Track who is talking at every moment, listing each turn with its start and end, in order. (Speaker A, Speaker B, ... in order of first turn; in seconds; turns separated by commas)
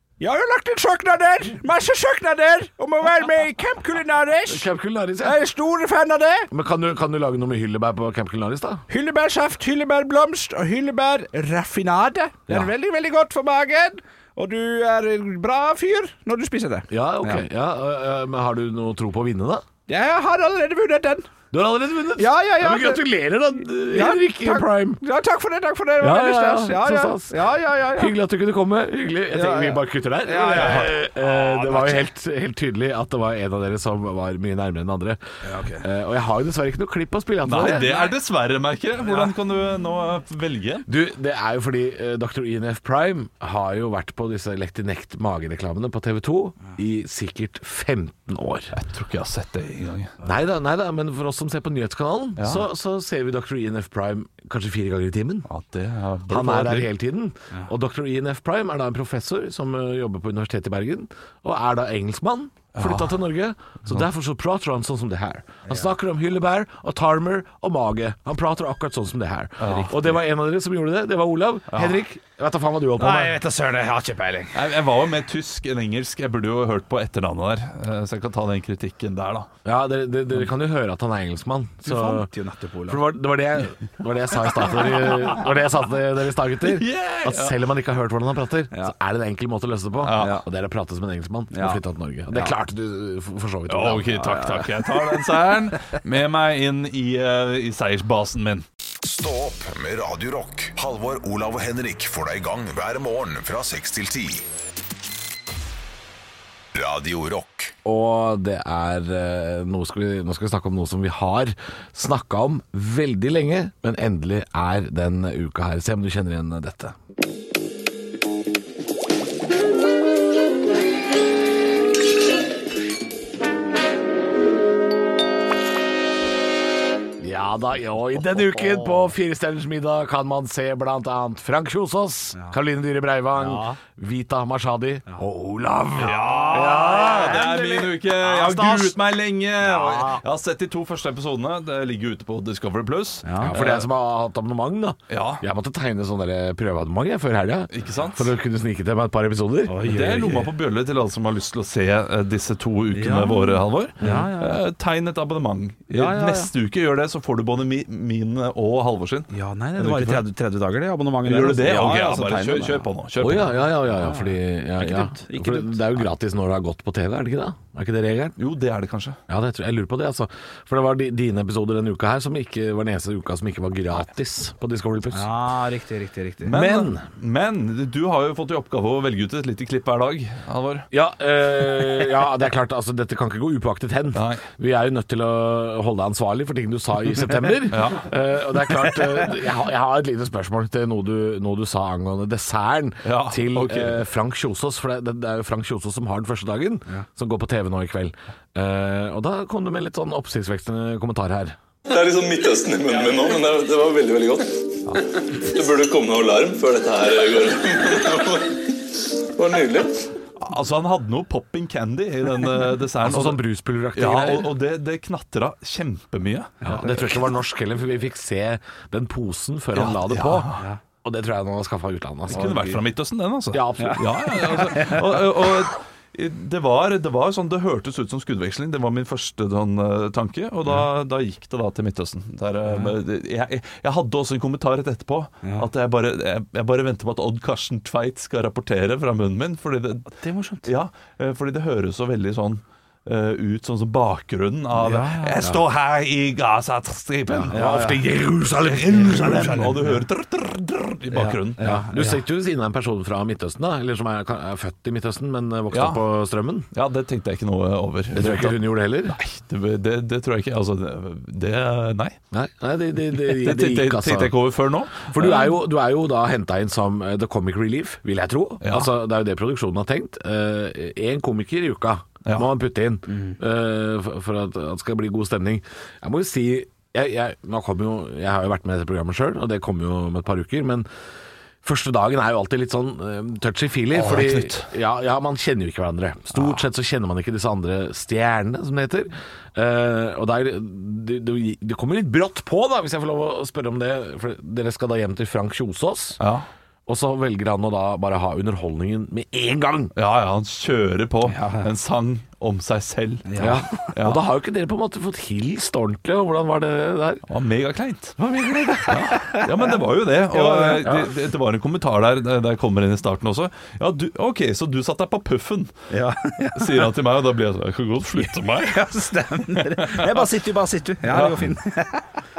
Speaker A: 0.2-4.7, Speaker B: 4.5-5.4, Speaker A: 5.2-6.5, Speaker B: 6.5-8.8, Speaker A: 8.9-17.4, Speaker B: 16.9-19.6, Speaker A: 19.9-21.3, Speaker B: 21.5-25.0, Speaker A: 22.2-23.1, Speaker A: 23.9-28.1, Speaker B: 26.0-35.2, Speaker A: 29.3-32.0, Speaker C: 30.5-30.9, Speaker A: 35.4-35.9, Speaker B: 35.8-38.1, Speaker C: 37.4-40.9, Speaker B: 40.9-48.7, Speaker C: 48.7-50.1, Speaker B: 50.2-55.5, Speaker C: 52.4-52.6, Speaker C: 55.5-56.9, Speaker B: 56.3-73.4, Speaker C: 62.7-63.2, Speaker C: 69.6-70.0, Speaker A: 69.6-69.9, Speaker C: 71.7-72.0, Speaker A: 73.0-74.5, Speaker C: 74.5-79.5, Speaker B: 79.6-82.3, Speaker A: 81.8-83.1, Speaker B: 82.8-94.4, Speaker C: 85.0-85.2, Speaker C: 86.6-87.6, Speaker C: 90.0-90.4, Speaker A: 90.1-90.4, Speaker A: 91.5-91.8, Speaker C: 93.7-98.6, Speaker A: 94.2-95.2, Speaker D: 99.0-104.5, Speaker D: 106.7-107.7, Speaker B: 107.8-117.0, Speaker B: 127.2-137.4, Speaker A: 128.2-129.1, Speaker A: 133.4-133.8, Speaker A: 136.0-139.0, Speaker C: 136.0-143.9, Speaker A: 139.6-140.2, Speaker A: 143.2-143.5, Speaker B: 143.4-149.8, Speaker C: 145.1-145.4, Speaker C: 147.7-148.3, Speaker A: 149.7-150.5, Speaker C: 149.8-160.2, Speaker A: 152.9-154.6, Speaker A: 155.9-156.5, Speaker A: 159.3-162.9, Speaker C: 161.2-163.5, Speaker B: 163.2-168.3, Speaker A: 163.9-166.1, Speaker C: 168.4-169.2, Speaker B: 169.3-175.3, Speaker A: 175.1-176.5, Speaker C: 176.5-180.9, Speaker B: 176.5-177.0, Speaker B: 180.9-201.6, Speaker C: 184.1-184.4, Speaker C: 187.7-188.1, Speaker C: 193.0-194.0, Speaker E: 201.8-210.1, Speaker C: 210.4-213.4, Speaker B: 213.0-214.5, Speaker C: 213.9-216.6, Speaker A: 216.6-217.1, Speaker B: 216.6-220.5, Speaker C: 219.7-220.6, Speaker B: 221.0-222.7, Speaker C: 222.3-247.7, Speaker A: 222.3-222.8, Speaker B: 223.5-224.7, Speaker A: 223.8-225.1, Speaker A: 232.7-232.9, Speaker A: 240.1-240.7, Speaker A: 244.7-245.4, Speaker B: 247.3-249.8, Speaker A: 247.5-248.0, Speaker C: 248.5-251.6, Speaker A: 251.1-252.2, Speaker B: 251.6-256.7, Speaker C: 255.7-256.0, Speaker C: 256.7-262.2, Speaker B: 258.1-259.2, Speaker B: 262.3-264.4, Speaker C: 263.1-265.5, Speaker B: 265.1-280.9, Speaker C: 268.6-268.9, Speaker B: 281.6-296.2, Speaker C: 283.9-284.6, Speaker C: 296.2-296.4, Speaker B: 296.9-299.9, Speaker C: 299.9-304.2, Speaker A: 301.3-301.7, Speaker A: 303.3-303.9, Speaker B: 303.4-307.2, Speaker C: 307.3-308.2, Speaker B: 308.2-309.1, Speaker C: 308.9-315.7, Speaker A: 309.0-309.5, Speaker A: 310.3-310.9, Speaker A: 315.9-316.9, Speaker C: 316.5-318.9, Speaker A: 318.6-322.1, Speaker C: 319.5-320.3, Speaker C: 321.1-321.6